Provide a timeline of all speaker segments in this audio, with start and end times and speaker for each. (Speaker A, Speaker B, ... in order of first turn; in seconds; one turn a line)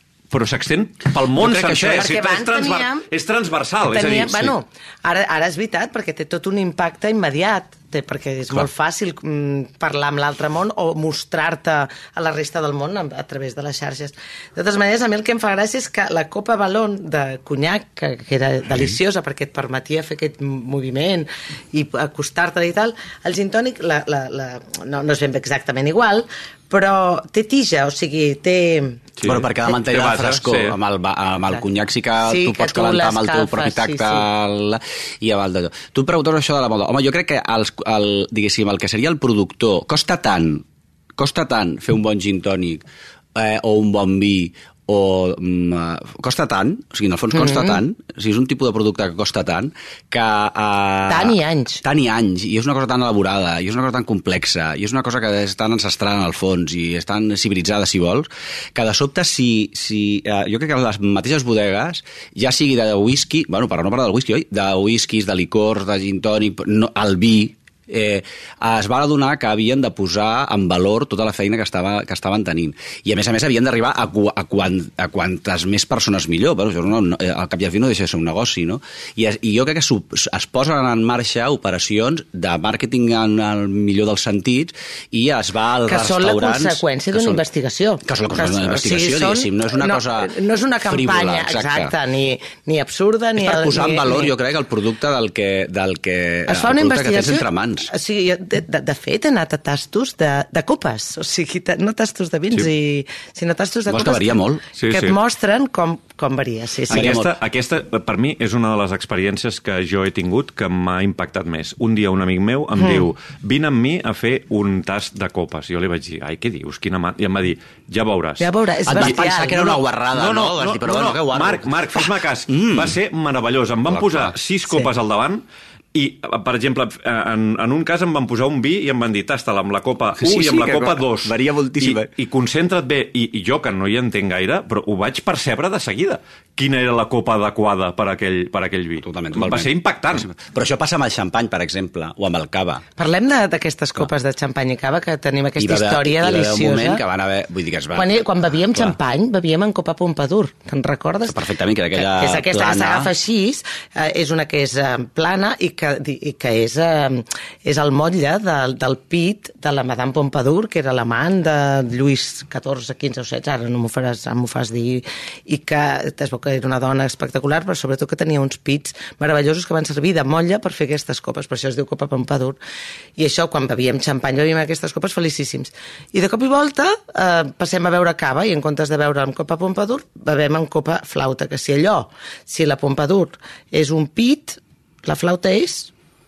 Speaker A: 0.3-4.5
Speaker B: 1.4-2.1
Speaker C: 1.8-3.1
Speaker C: 3.8-29.1
Speaker A: 29.2-30.8
Speaker B: 29.2-40.6
Speaker C: 32.2-34.2
Speaker B: 41.2-42.8
Speaker B: 43.3-87.4
Speaker C: 47.3-47.8
Speaker C: 51.1-51.8
Speaker C: 85.8-94.3
Speaker B: 88.0-90.3
Speaker B: 90.8-91.9
Speaker B: 93.4-97.9
Speaker C: 96.5-107.2
Speaker B: 103.9-104.6
Speaker A: 104.8-105.2
Speaker A: 106.9-119.2
Speaker B: 106.9-107.3
Speaker C: 112.8-113.1
Speaker C: 118.4-119.8
Speaker B: 118.9-123.0
Speaker A: 120.1-125.4
Speaker B: 123.9-124.3
Speaker A: 125.9-140.3
Speaker B: 130.2-132.1
Speaker B: 139.0-142.8
Speaker C: 143.0-147.0
Speaker B: 145.6-148.2
Speaker C: 147.9-151.4
Speaker B: 151.3-153.1
Speaker C: 151.9-172.6
Speaker C: 173.2-185.9